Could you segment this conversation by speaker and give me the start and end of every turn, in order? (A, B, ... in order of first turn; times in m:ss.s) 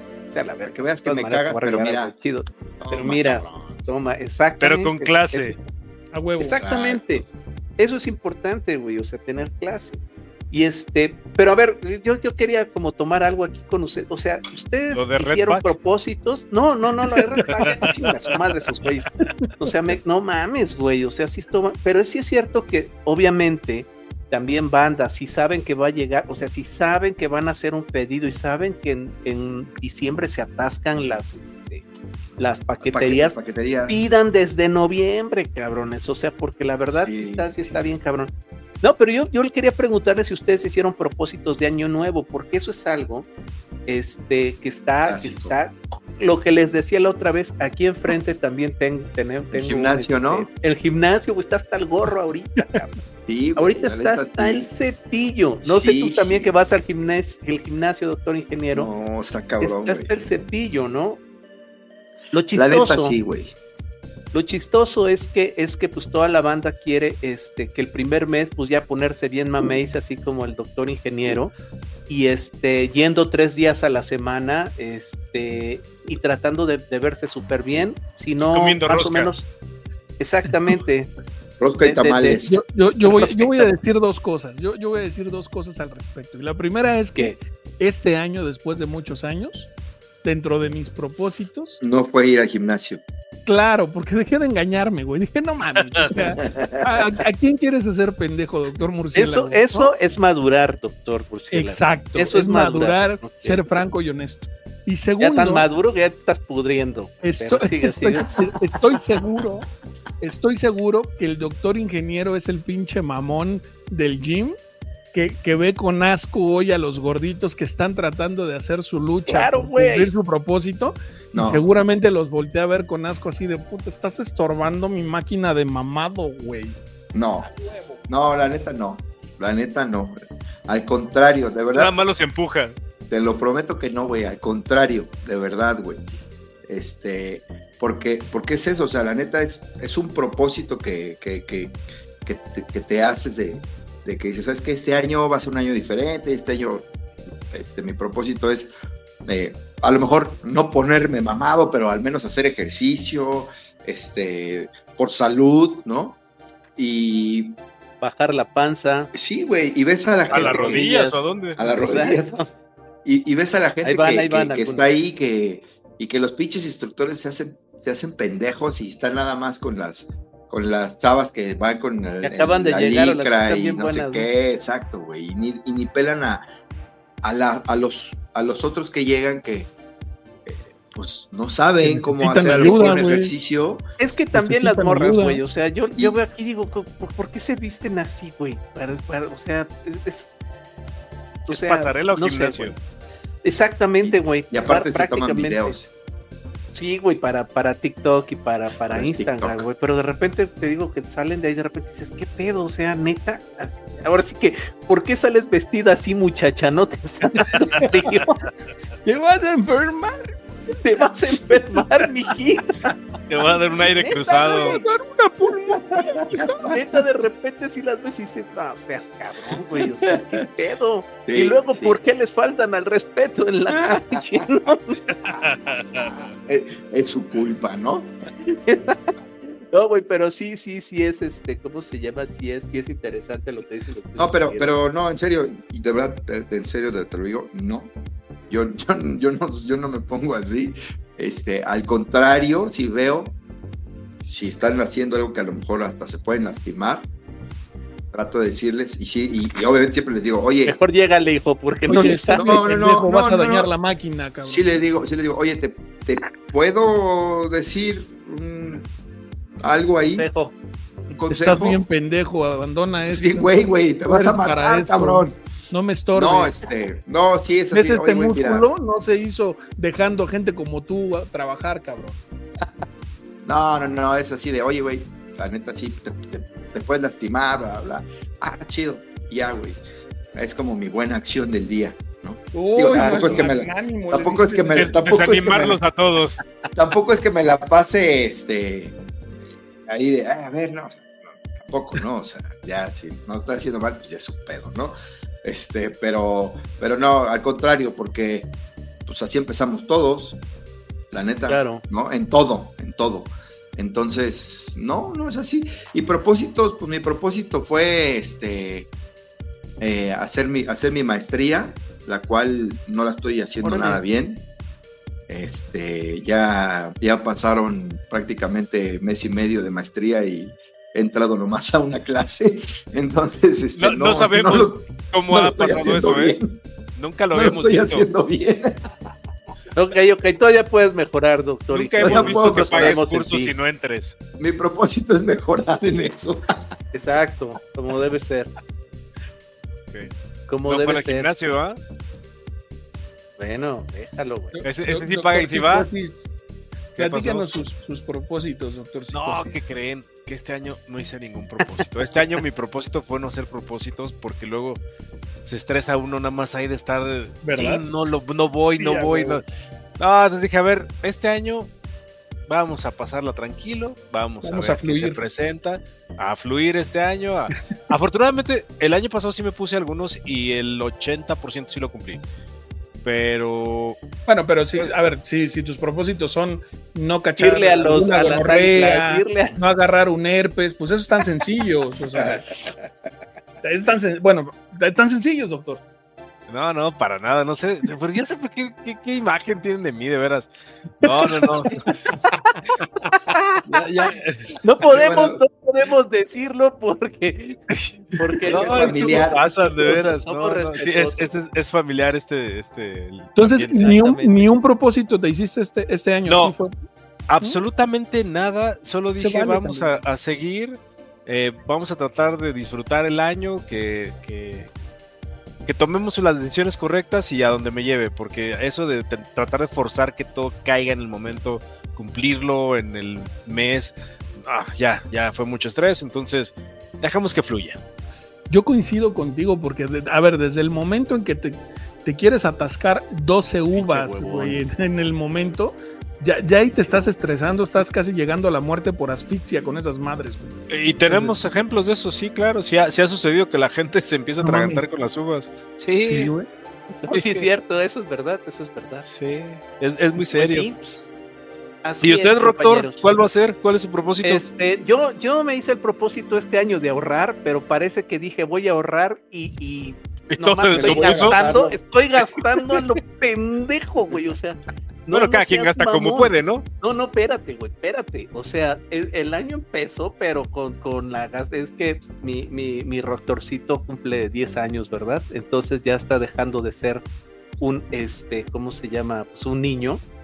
0:00.3-0:05.7 A
0:00.6-0:02.1 B
0:02.8-0:03.8 B
0:04.6-0:05.6 C
0:06.1-0:06.6 D
0:06.4-0:07.2 A
0:06.5-0:07.2 B
0:07.8-0:31.8 A
0:14.9-0:15.7 C
0:32.4-0:38.3 A
0:32.8-0:34.0 B
0:36.9-0:37.8 B
0:38.8-0:43.2 A
0:43.9-0:52.9 A
0:45.0-0:45.5 B
0:49.5-0:50.5 B
0:53.3-0:54.7 B
0:53.6-0:58.9 A
0:55.6-0:56.5 B
0:58.7-1:00.2 B
0:59.6-1:01.2 A
1:02.3-1:03.2 A
1:02.5-1:03.5 B
1:04.3-1:11.5 A
1:12.1-1:19.4 A
1:18.5-1:19.3 C
1:20.2-1:21.1 A
1:21.6-1:22.6 B
1:21.8-1:22.4 A
1:22.5-1:29.7 D
1:23.0-1:23.7 A
1:30.2-1:31.8 D
1:31.8-1:33.0 B
1:33.4-1:39.9 D
1:36.1-1:37.0 B
1:39.1-1:43.7 A
1:41.5-1:45.6 D
1:45.2-1:48.5 A
1:47.2-1:49.7 D
1:50.2-1:54.6 D
1:55.1-2:06.8 D
1:59.2-2:00.1 A
2:01.3-2:01.7 B
2:07.1-2:07.5 B
2:07.4-2:08.0 D
2:08.1-2:10.2 B
2:10.7-2:11.9 B
2:11.7-2:12.7 C
2:13.1-2:16.0 B
2:16.6-2:26.8 B
2:27.5-2:28.7 B
2:29.3-2:36.2 B
2:36.8-2:37.6 B
2:38.0-2:39.1 A
2:39.1-2:40.9 B
2:40.3-2:41.6 C
2:40.3-2:42.5 A
2:41.6-2:42.4 B
2:43.0-2:56.4 B
2:43.8-2:44.9 A
2:52.2-2:54.3 A
2:57.2-2:59.7 B
3:00.4-3:03.8 B
3:01.8-3:03.3 D
3:02.5-3:03.1 A
3:04.0-3:10.5 A
3:04.3-3:05.4 D
3:11.5-3:12.8 A
3:11.5-3:12.8 C
3:13.4-3:15.8 A
3:14.0-3:15.9 B
3:16.7-3:28.3 A
3:18.9-3:19.7 B
3:27.4-3:28.2 D
3:29.0-3:30.4 D
3:30.7-3:34.8 A
3:33.3-3:34.8 C
3:34.5-3:36.8 D
3:35.9-3:36.7 B
3:36.6-3:45.3 A
3:39.8-3:40.4 B
3:41.2-3:42.0 B
3:43.7-3:44.2 B
3:45.2-3:46.2 C
3:46.5-3:48.1 B
3:48.4-3:54.7 A
3:54.2-3:57.9 B
3:58.5-4:03.4 B
4:04.2-4:07.1 B
4:08.1-4:10.8 B
4:10.6-4:12.8 A
4:11.9-4:14.8 D
4:12.3-4:13.7 B
4:14.4-4:18.8 B
4:19.6-4:20.3 B
4:20.1-4:20.5 A
4:21.1-4:21.8 B
4:21.3-4:26.6 D
4:23.0-4:25.4 B
4:26.1-4:28.7 B
4:27.7-4:32.2 D
4:33.4-4:39.8 B
4:40.3-4:45.8 B
4:42.5-4:44.9 D
4:42.9-4:43.4 A
4:44.7-4:46.4 C
4:46.7-4:49.0 B
4:49.9-4:58.5 B
4:59.0-5:00.4 B
5:01.1-5:08.9 B
5:01.4-5:01.8 A
5:09.8-5:14.4 B
5:13.6-5:14.0 A
5:15.3-5:26.6 B
5:23.8-5:26.4 C
5:27.0-5:28.1 C
5:27.3-5:28.8 B
5:29.7-5:33.5 A
5:31.7-5:34.2 C
5:32.0-5:33.0 B
5:34.4-5:36.4 B
5:36.9-5:38.5 A
5:40.5-5:41.3 A
5:40.6-5:41.8 C
5:43.4-5:44.6 A
5:44.6-5:46.3 D
5:44.6-5:45.9 C
5:47.0-5:47.5 C
5:47.0-5:49.7 D
5:49.1-5:54.8 C
5:55.4-5:59.4 C
5:57.4-5:57.8 D
5:58.7-5:59.4 D
6:00.0-6:01.7 C
6:02.5-6:12.2 C
6:04.4-6:05.2 D
6:13.0-6:14.0 C
6:14.2-6:22.6 D
6:17.4-6:19.6 A
6:23.6-6:25.8 D
6:26.5-6:31.8 C
6:31.4-6:32.2 A
6:33.1-6:33.6 A
6:33.6-6:34.6 C
6:34.6-6:41.3 A
6:34.9-6:35.4 B
6:38.4-6:44.0 C
6:38.6-6:39.4 B
6:43.4-6:46.7 D
6:43.7-6:44.5 A
6:46.2-6:46.5 C
6:47.3-6:54.7 C
6:49.2-6:50.0 D
6:55.6-7:07.8 C
7:08.5-7:21.4 D
7:13.7-7:14.6 C
7:20.7-7:26.3 C
7:24.4-7:24.8 D
7:26.0-7:26.5 D
7:27.0-7:27.5 C
7:27.0-7:29.1 A
7:29.0-7:30.7 C
7:30.3-7:31.0 A
7:31.8-7:33.1 A
7:32.0-7:34.4 C
7:34.2-7:57.0 A
7:40.3-7:41.4 C
7:40.7-7:41.8 B
7:42.2-7:42.8 C
7:45.1-7:46.6 C
7:57.6-8:00.0 A